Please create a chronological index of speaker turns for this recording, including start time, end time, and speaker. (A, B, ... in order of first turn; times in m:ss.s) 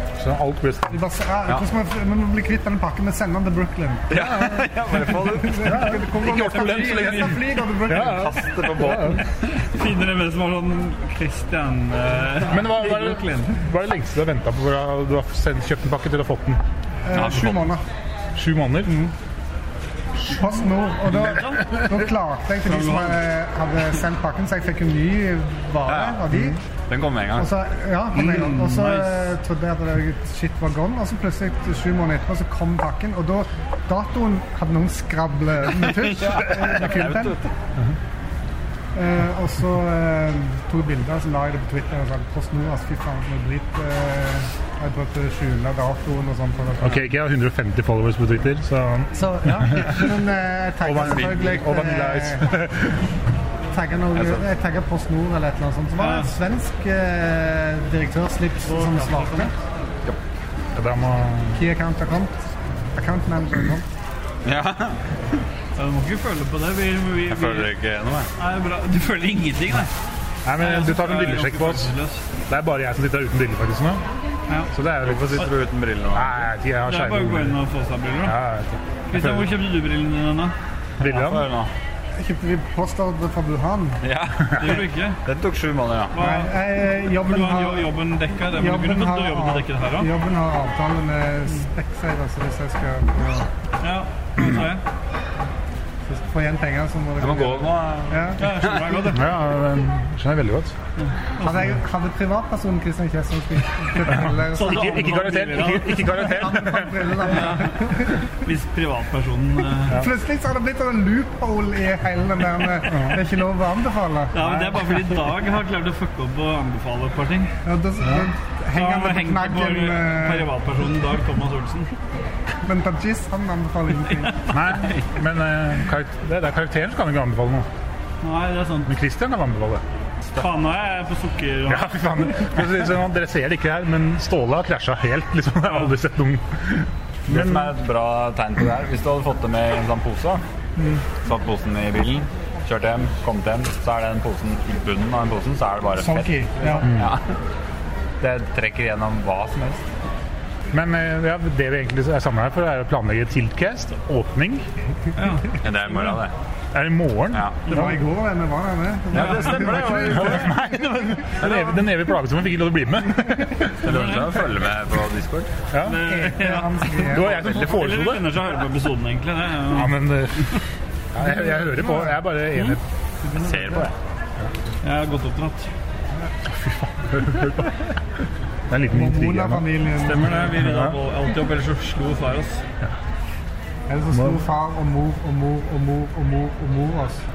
0:00.2-0:01.0 A
0:00.9-0:04.1 B
0:04.1-0:05.9 C
0:04.1-0:04.7 A
0:05.3-0:08.4 B
0:05.6-0:09.2 A
0:06.3-0:07.3 D
0:07.9-0:09.5 C
0:09.5-0:13.6 D
0:12.5-0:16.6 A
0:17.0-0:17.8 B
0:17.1-0:17.7 C
0:18.4-0:19.0 A
0:20.2-0:26.6 B
0:21.1-0:21.9 D
0:22.7-0:23.2 D
0:25.8-0:26.3 C
0:26.9-0:27.5 C
0:27.3-0:37.4 B
0:28.2-0:29.3 D
0:35.8-0:37.5 C
0:38.9-0:47.1 B
0:46.8-0:50.1 A
0:49.1-0:52.5 B
0:50.8-0:53.0 A
0:51.0-0:51.4 C
0:53.7-0:59.5 B
0:54.1-0:54.4 C
0:56.0-0:56.3 D
0:58.7-0:59.5 D
1:00.7-1:01.6 A
1:01.5-1:02.4 B
1:02.9-1:03.8 B
1:04.4-1:05.0 C
1:05.8-1:07.7 D
1:07.3-1:08.3 C
1:08.4-1:09.9 D
1:10.4-1:11.9 A
1:10.6-1:12.2 D
1:12.5-1:14.0 A
1:14.7-1:15.5 A
1:15.0-1:16.5 C
1:16.1-1:17.6 A
1:16.8-1:18.3 D
1:18.2-1:19.5 A
1:19.1-1:20.5 D
1:21.0-1:21.4 A
1:21.0-1:21.7 C
1:22.1-1:24.0 B
1:24.0-1:26.2 C
1:24.6-1:25.2 D
1:26.1-1:30.1 D
1:26.2-1:27.9 B
1:28.5-1:33.5 B
1:33.8-1:34.8 D
1:36.1-1:38.4 B
1:37.2-1:39.0 C
1:38.4-1:39.2 D
1:39.1-1:40.7 A
1:41.0-1:41.7 D
1:41.4-1:48.2 B
1:44.1-1:47.3 A
1:44.4-1:46.2 D
1:47.3-1:50.0 D
1:49.9-1:54.7 B
1:54.3-1:57.5 D
1:57.6-2:00.5 B
1:58.7-2:01.9 D
2:02.6-2:04.5 B
2:04.5-2:07.7 A
2:08.2-2:08.9 D
2:08.9-2:09.8 A
2:10.3-2:12.0 D
2:11.7-2:17.7 A
2:17.3-2:20.4 C
2:21.2-2:27.4 C
2:26.0-2:26.9 B
2:28.2-2:29.8 C
2:30.7-2:34.6 A
2:35.2-2:36.2 D
2:35.6-2:36.3 C
2:36.7-2:37.8 A
2:37.3-2:37.6 C
2:37.7-2:40.7 B
2:39.1-2:40.5 C
2:39.1-2:40.1 D
2:40.1-2:43.8 A
2:41.4-2:41.8 C
2:43.8-2:45.5 C
2:43.9-2:44.2 D
2:45.7-2:46.0 A
2:45.8-2:50.0 D
2:45.9-2:47.4 B
2:47.0-2:48.4 A
2:49.7-2:50.6 A
2:51.1-2:52.8 A
2:51.2-2:52.2 B
2:53.4-2:53.9 C
2:53.4-2:53.8 B
2:54.8-2:55.7 D
2:56.5-2:57.9 A
2:58.7-3:01.0 A
2:58.9-3:00.5 B
3:00.0-3:02.6 D
3:03.9-3:07.2 B
3:04.1-3:04.4 A